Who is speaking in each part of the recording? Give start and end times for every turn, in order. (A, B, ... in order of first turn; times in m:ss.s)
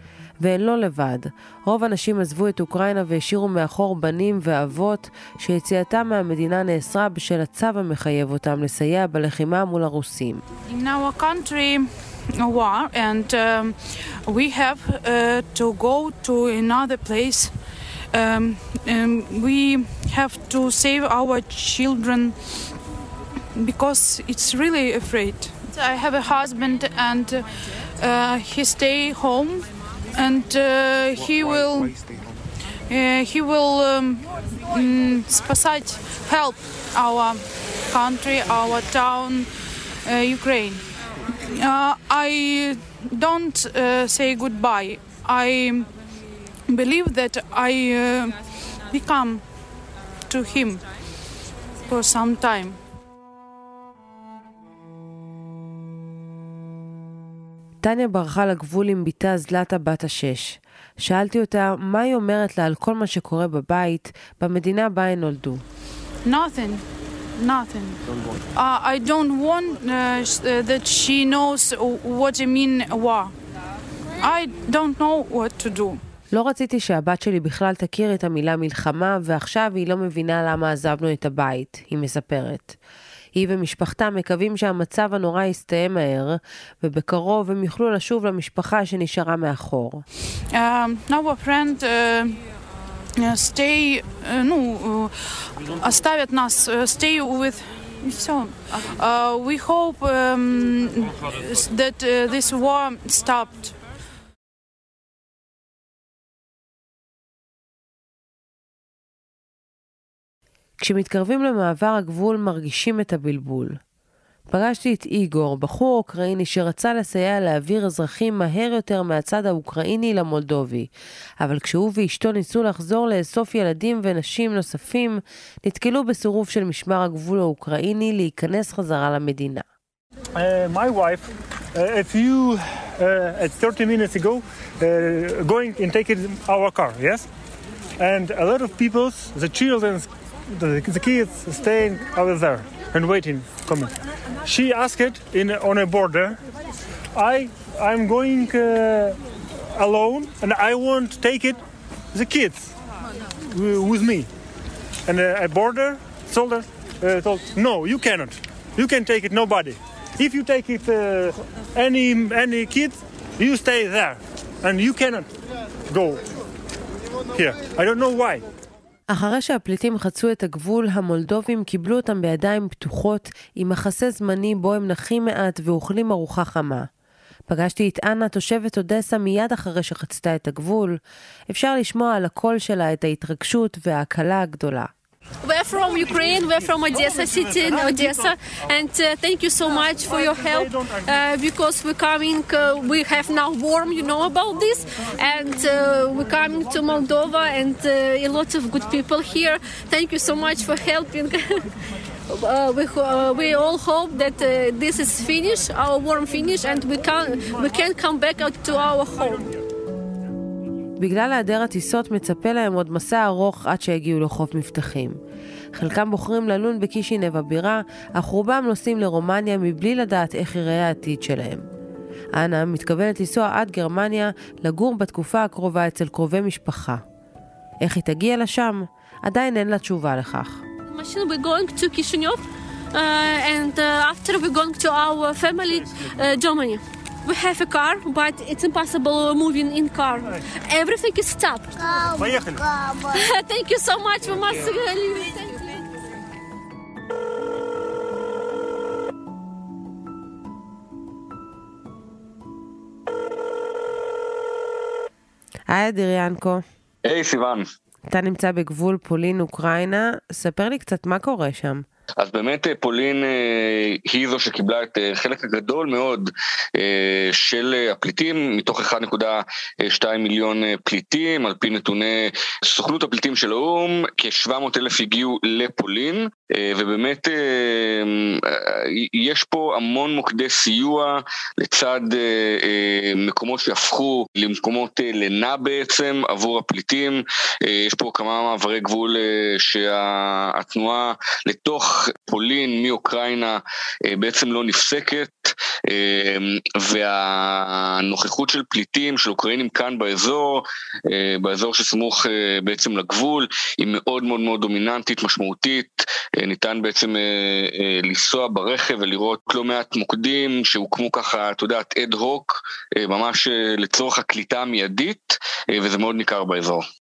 0:00.4-0:10.4 A
0:10.6-0:17.5 B
0:18.1-0:22.4 B
0:23.5-0:27.5 B
0:28.0-0:32.0 B
0:32.9-0:39.5 B
0:40.0-0:40.8 B
0:41.4-0:45.9 B
0:46.7-0:49.4 B
0:50.3-0:50.8 B
0:51.8-0:52.8 B
0:57.8-1:05.6 A
1:06.2-1:06.8 B
1:07.4-1:08.0 B
1:08.5-1:13.3 B
1:14.2-1:16.0 B
1:16.3-1:22.8 A
1:23.3-1:30.0 A
1:30.5-1:32.4 B
1:33.2-1:43.8 B
1:50.8-1:53.8 A
1:54.5-2:09.6 A
2:10.3-2:17.3 C
2:18.0-2:23.9 C
2:24.4-2:26.4 C
2:27.1-2:29.2 C
2:29.7-2:31.6 C
2:32.1-2:32.7 C
2:33.4-2:34.3 C
2:35.0-2:45.3 C
2:45.9-2:46.2 C
2:47.3-2:48.4 C
2:49.1-2:56.9 A
2:57.5-3:04.9 A
3:05.4-3:21.6 D
3:05.9-3:08.3 C
3:09.6-3:11.0 C
3:22.3-3:29.5 D
3:31.0-3:35.2 A
3:35.7-3:41.6 A
3:42.4-3:47.0 A
3:47.8-3:50.6 A
3:50.9-3:52.4 D
3:52.9-4:01.8 D
4:02.1-4:02.6 C
4:03.1-4:05.8 D
4:15.7-4:16.6 A
4:17.0-4:17.6 E
4:18.1-4:21.8 A
4:22.2-5:16.8 E